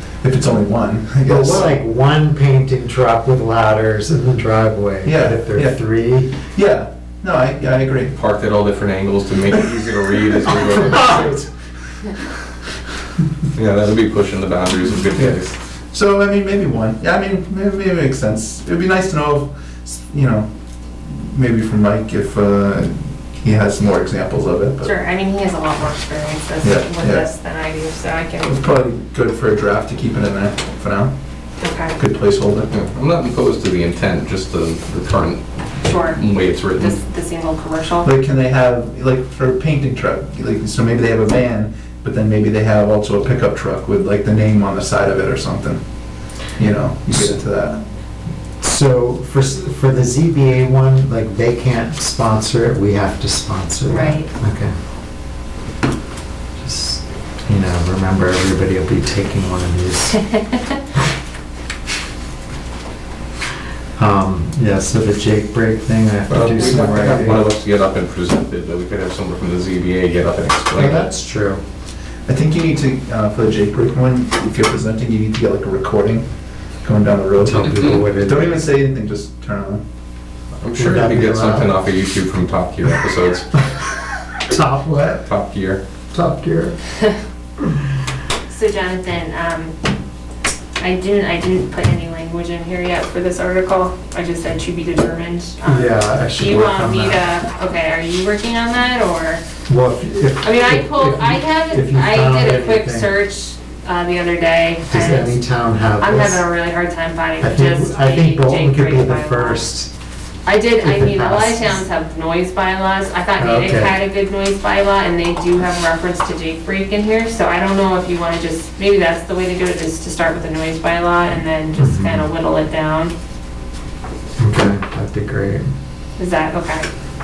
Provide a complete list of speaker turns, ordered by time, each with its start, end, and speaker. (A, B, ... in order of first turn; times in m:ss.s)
0:00.2-0:01.8 A
0:01.2-0:06.4 B
0:05.0-0:05.8 A
0:06.4-0:08.1 A
0:08.1-0:11.4 C
0:11.1-0:11.4 B
0:13.5-0:15.5 C
0:15.1-0:15.4 A
0:15.9-0:20.5 A
0:21.0-0:24.9 A
0:24.8-0:28.6 D
0:26.6-0:27.3 A
0:28.4-0:31.1 A
0:31.6-0:32.0 D
0:32.0-0:32.7 A
0:32.7-0:37.0 C
0:35.8-0:36.2 D
0:36.8-0:38.1 D
0:38.0-0:45.8 A
0:46.6-0:47.8 A
0:48.6-0:54.7 B
0:53.9-0:54.3 D
0:56.6-1:00.2 B
1:00.3-1:00.6 D
1:04.0-1:07.4 B
1:06.3-1:11.1 C
1:06.6-1:07.1 A
1:10.7-1:11.6 B
1:12.2-1:16.3 A
1:16.8-1:19.8 A
1:17.4-1:18.6 B
1:20.6-1:23.5 C
1:20.7-1:21.7 B
1:24.4-1:25.3 B
1:25.2-1:25.8 C
1:26.1-1:26.8 B
1:28.5-1:29.7 D
1:30.8-1:39.4 D
1:35.6-1:37.2 B
1:39.7-1:43.1 B
1:40.4-1:45.4 D
1:44.9-1:46.4 B
1:46.0-1:49.6 D
1:47.4-1:49.9 B
1:50.4-2:03.1 D
1:50.8-1:51.8 B
1:53.4-1:54.0 B
2:01.8-2:02.3 B
2:04.4-2:05.6 B
2:06.2-2:06.9 D